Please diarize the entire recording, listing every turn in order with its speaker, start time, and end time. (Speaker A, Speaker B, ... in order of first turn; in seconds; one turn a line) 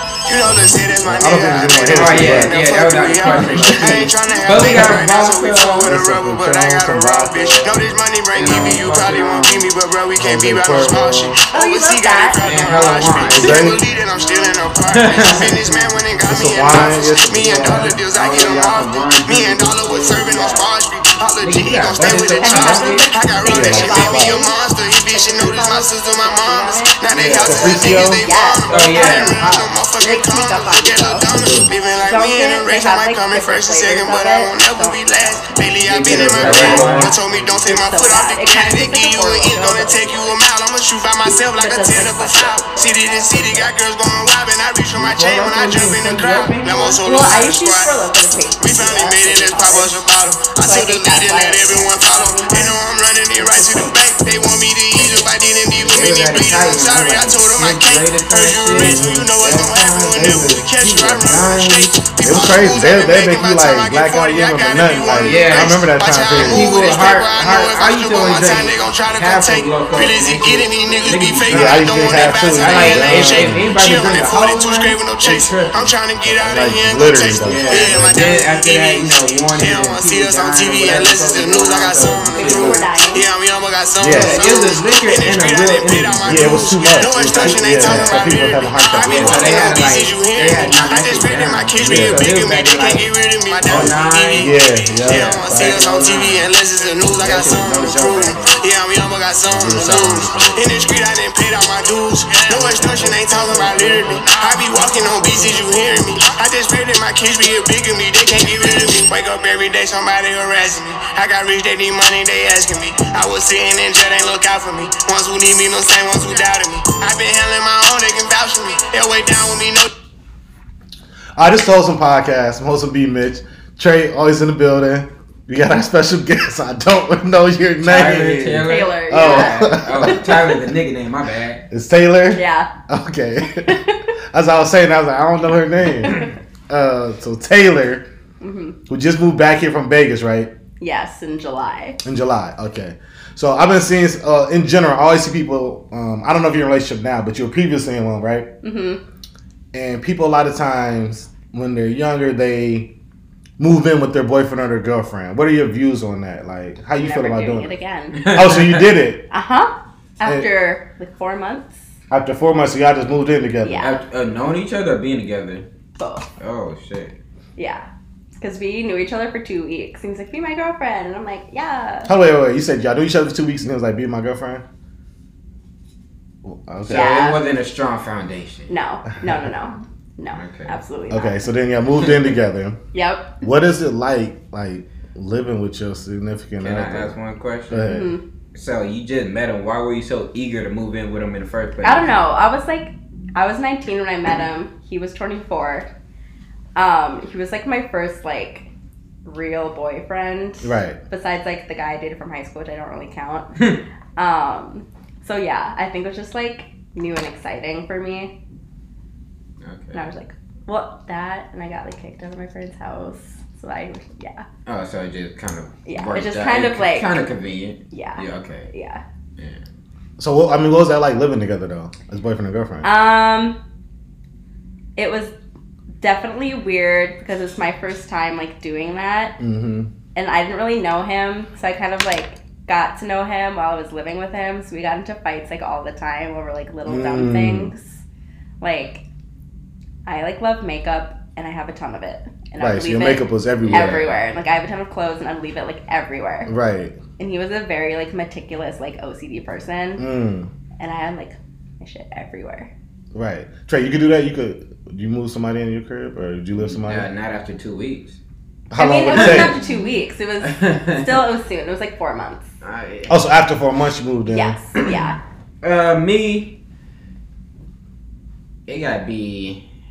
Speaker A: 0.3-48.0
Speaker B: 0.4-2.7
Speaker C: 1.9-5.9
Speaker D: 3.2-3.6
Speaker B: 3.2-4.1
Speaker B: 4.7-5.0
Speaker B: 5.8-8.8
Speaker C: 8.3-9.7
Speaker B: 10.2-11.4
Speaker D: 11.5-12.8
Speaker C: 12.4-13.7
Speaker B: 13.3-13.8
Speaker C: 14.9-15.7
Speaker B: 16.3-18.8
Speaker C: 16.6-20.7
Speaker C: 21.4-23.2
Speaker D: 22.0-27.1
Speaker B: 23.4-24.4
Speaker C: 27.1-28.1
Speaker B: 27.4-28.3
Speaker D: 27.8-35.7
Speaker C: 28.7-29.5
Speaker B: 31.3-31.7
Speaker C: 35.8-37.1
Speaker B: 36.1-37.2
Speaker D: 36.5-40.4
Speaker D: 41.3-43.7
Speaker C: 44.9-47.0
Speaker D: 47.0-50.0
Speaker A: 48.6-119.9
Speaker D: 50.6-52.8
Speaker D: 53.4-54.0
Speaker C: 55.8-62.1
Speaker B: 58.7-59.3
Speaker B: 62.2-66.8
Speaker C: 65.2-75.9
Speaker B: 71.5-73.8
Speaker B: 76.3-78.2
Speaker C: 77.4-82.9
Speaker D: 81.0-81.6
Speaker D: 82.3-83.3
Speaker B: 84.0-84.4
Speaker C: 84.0-88.2
Speaker B: 86.3-89.8
Speaker C: 89.1-93.1
Speaker B: 91.8-92.3
Speaker C: 93.6-94.5
Speaker B: 93.7-95.8
Speaker C: 95.0-96.5
Speaker C: 97.2-98.6
Speaker B: 99.5-100.9
Speaker B: 102.6-105.9
Speaker C: 103.0-103.8
Speaker B: 121.4-130.4
Speaker C: 127.8-131.6
Speaker D: 128.7-130.5
Speaker B: 131.7-133.8
Speaker D: 132.3-132.7
Speaker D: 133.6-134.0
Speaker B: 134.3-138.1
Speaker D: 138.4-138.8
Speaker B: 138.9-140.5
Speaker D: 140.8-142.0
Speaker B: 142.0-148.5
Speaker D: 148.6-149.0
Speaker B: 149.7-152.9
Speaker B: 153.6-157.7
Speaker D: 157.0-158.2
Speaker C: 158.1-158.9
Speaker B: 158.3-159.3
Speaker D: 159.3-161.7
Speaker B: 162.1-163.8
Speaker D: 163.6-164.0
Speaker C: 163.8-165.7
Speaker D: 166.0-166.3
Speaker C: 166.4-167.2
Speaker D: 167.6-172.1
Speaker B: 172.1-174.6
Speaker B: 176.4-177.1
Speaker C: 176.9-178.7
Speaker D: 176.9-177.4
Speaker D: 178.7-181.4
Speaker B: 179.2-179.6
Speaker C: 180.3-180.8
Speaker B: 181.1-182.8
Speaker D: 182.9-183.4
Speaker B: 183.4-187.2
Speaker C: 186.6-188.0
Speaker B: 187.7-188.1
Speaker D: 187.9-188.2
Speaker C: 188.5-192.1
Speaker D: 191.8-195.9
Speaker D: 196.8-198.7
Speaker D: 199.2-203.5
Speaker B: 200.6-201.0
Speaker D: 204.2-208.3
Speaker C: 209.6-210.0
Speaker D: 209.9-214.5
Speaker C: 214.7-218.7
Speaker D: 215.9-217.1
Speaker D: 217.9-219.0
Speaker C: 219.4-219.6
Speaker B: 220.2-222.9
Speaker D: 222.8-223.6
Speaker D: 225.0-225.3
Speaker D: 226.0-229.4
Speaker B: 229.4-229.9
Speaker D: 230.2-238.0
Speaker B: 236.9-237.7
Speaker D: 238.6-239.0
Speaker D: 240.1-246.5
Speaker B: 242.6-244.0
Speaker C: 243.6-244.2
Speaker B: 246.5-247.0
Speaker D: 247.2-250.1
Speaker B: 250.0-250.5
Speaker D: 250.8-252.7
Speaker B: 253.1-257.1
Speaker C: 256.6-258.2
Speaker B: 258.7-259.6
Speaker D: 258.8-262.5
Speaker C: 259.1-261.2
Speaker C: 262.6-263.2
Speaker B: 263.1-264.6
Speaker D: 264.3-265.2
Speaker C: 265.6-266.6
Speaker C: 268.7-269.6